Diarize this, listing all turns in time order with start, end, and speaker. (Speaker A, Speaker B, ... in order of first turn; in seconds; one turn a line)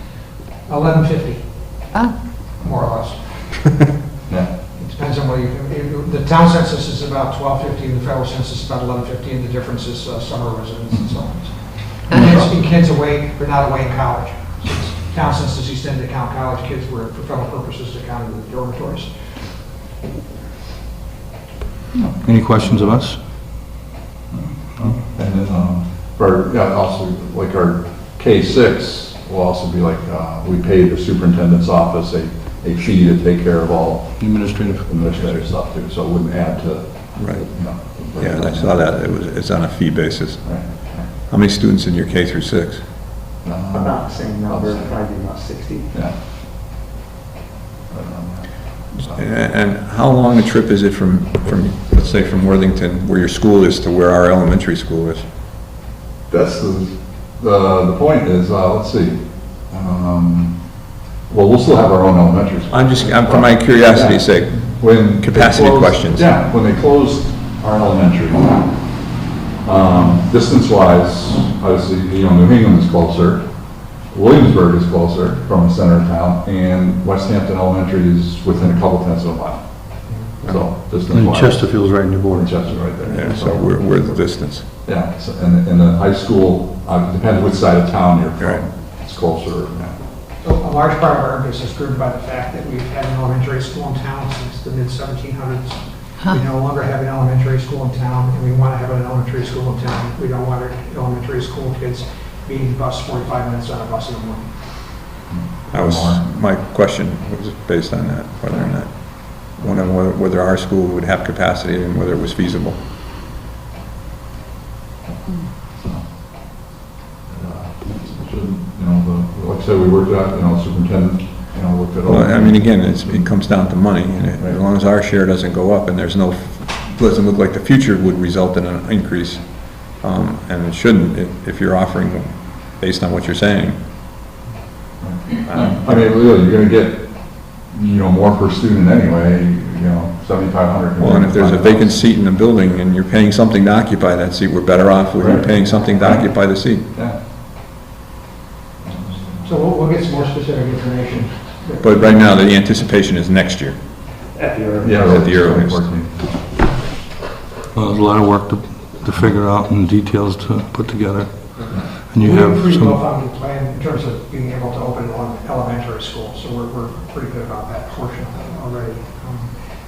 Speaker A: 0.7-1.9
Speaker A: 2.6-3.9
Speaker A: 4.8-19.1
Speaker B: 12.2-12.5
Speaker C: 22.2-23.2
Speaker B: 24.3-38.9
Speaker C: 34.2-35.1
Speaker D: 37.2-43.1
Speaker B: 40.4-41.1
Speaker B: 43.4-45.0
Speaker E: 43.7-45.9
Speaker B: 47.9-49.2
Speaker D: 48.9-55.3
Speaker B: 56.3-60.7
Speaker B: 61.3-69.0
Speaker D: 62.7-66.3
Speaker B: 69.6-83.4
Speaker C: 81.1-82.6
Speaker E: 83.0-84.2
Speaker D: 83.1-84.7
Speaker B: 84.8-89.9
Speaker A: 90.4-104.5
Speaker B: 105.3-106.3
Speaker D: 105.7-112.8
Speaker B: 115.7-116.1
Speaker B: 117.3-123.4
Speaker D: 122.1-133.8
Speaker B: 135.0-142.0
Speaker D: 135.4-136.0
Speaker D: 141.0-146.9
Speaker B: 145.2-146.4
Speaker E: 145.7-146.0
Speaker B: 146.9-147.2
Speaker A: 149.4-152.4
Speaker D: 151.8-154.1
Speaker E: 154.2-155.1
Speaker B: 154.8-156.4
Speaker D: 155.1-155.9
Speaker C: 157.7-163.0
Speaker A: 162.2-169.5